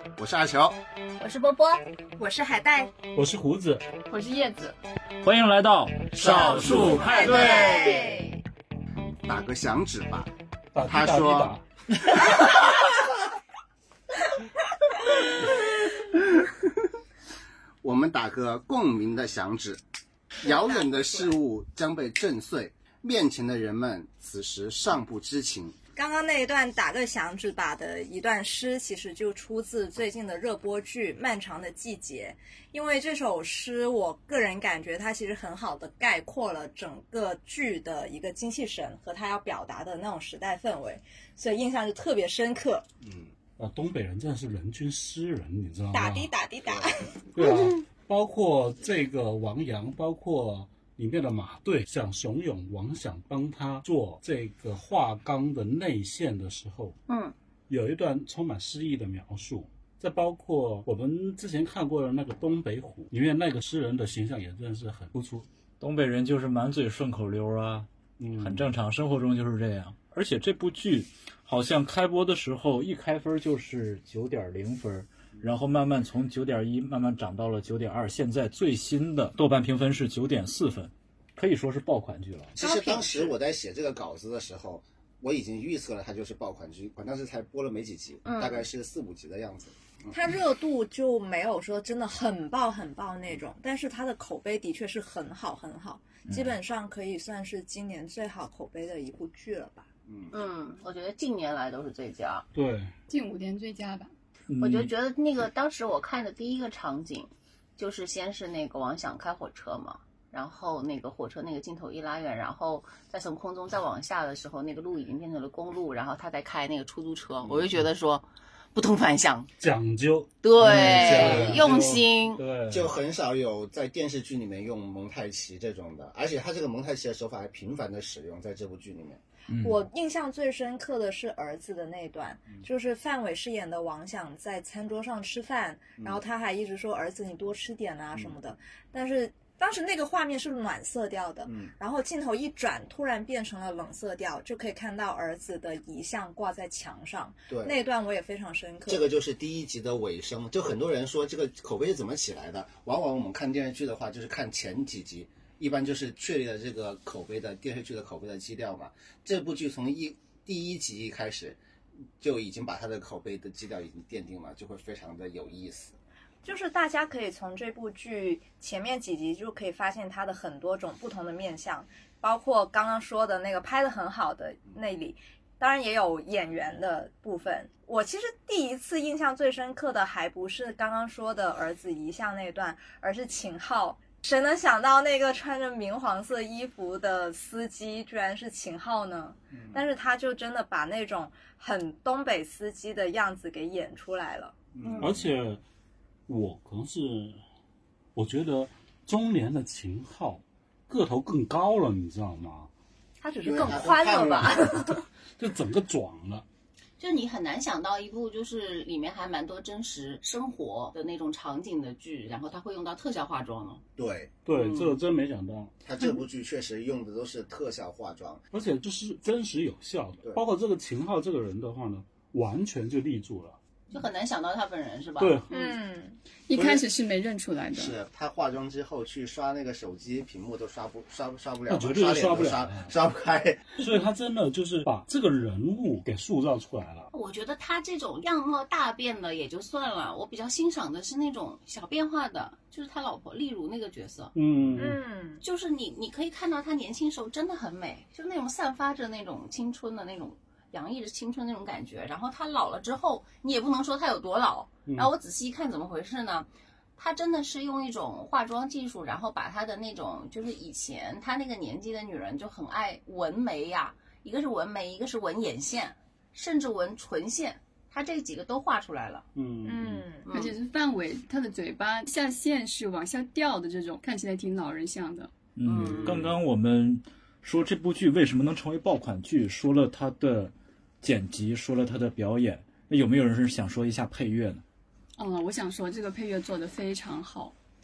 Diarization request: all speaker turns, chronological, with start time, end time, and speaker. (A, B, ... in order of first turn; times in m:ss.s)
0:00.2-0:00.8 A
0:01.2-0:01.8 B
0:02.2-0:02.9 C
0:03.1-0:03.8 D
0:04.1-0:04.8 E
0:05.2-0:07.9 F
0:06.2-0:08.1 A
0:06.3-0:08.4 C
0:09.2-0:10.3 A
0:10.7-0:11.6 D
0:10.8-0:11.5 A
0:17.8-0:19.8 A
0:20.4-0:25.7 A
0:26.0-0:42.9 C
0:43.0-0:43.3 A
0:43.6-0:46.3 D
0:45.9-0:47.1 C
0:46.7-0:47.0 A
0:47.3-0:57.0 D
0:57.1-0:57.3 B
0:57.7-1:05.5 D
1:05.8-1:22.5 F
1:08.2-1:08.7 D
1:22.6-1:29.8 A
1:22.6-1:23.4 B
1:28.2-1:28.6 B
1:30.1-1:39.9 C
1:36.3-1:36.6 F
1:40.1-1:40.3 A
1:40.3-1:42.5 B
1:42.5-1:42.9 D
1:43.1-1:44.1 E
1:44.5-1:44.9 F
1:44.6-1:59.5 B
1:59.6-2:03.0 D
2:00.4-2:02.4 B
2:00.9-2:01.9 A
2:02.7-2:09.2 A
2:09.5-2:09.8 F
2:09.5-2:29.1 C
2:21.4-2:21.7 A
2:27.5-2:27.8 A
2:28.9-2:41.6 A
2:42.2-2:46.0 A
2:46.4-3:14.6 C
3:09.5-3:09.8 A
3:14.8-3:15.3 A
3:14.8-3:15.1 B
3:15.0-3:15.6 D
3:16.3-3:17.4 D
3:18.1-3:22.7 D
3:23.2-3:24.6 C
3:23.4-3:24.7 A
3:23.4-3:24.9 B
3:25.4-3:26.4 D
3:27.0-3:33.8 B
3:34.0-3:34.3 A
3:34.4-3:35.8 D
3:34.6-3:34.9 B
3:35.8-3:38.4 A
3:38.5-3:43.6 D
3:43.9-3:45.7 B
3:45.2-3:45.5 D
3:45.5-3:46.2 C
3:46.5-3:48.0 E
3:46.5-3:46.8 A
3:47.7-3:53.8 A
3:51.7-3:52.9 D
3:53.8-3:57.1 D
3:57.1-4:04.3 B
4:04.3-4:05.0 D
4:04.8-4:05.4 C
4:05.4-4:29.3 B
4:14.9-4:15.1 D
4:29.4-4:30.1 D
4:29.6-4:30.3 C
4:30.2-4:30.5 B
4:30.3-4:35.3 E
4:35.6-4:44.6 F
4:35.7-4:36.2 B
4:35.7-4:36.4 D
4:45.2-4:47.6 E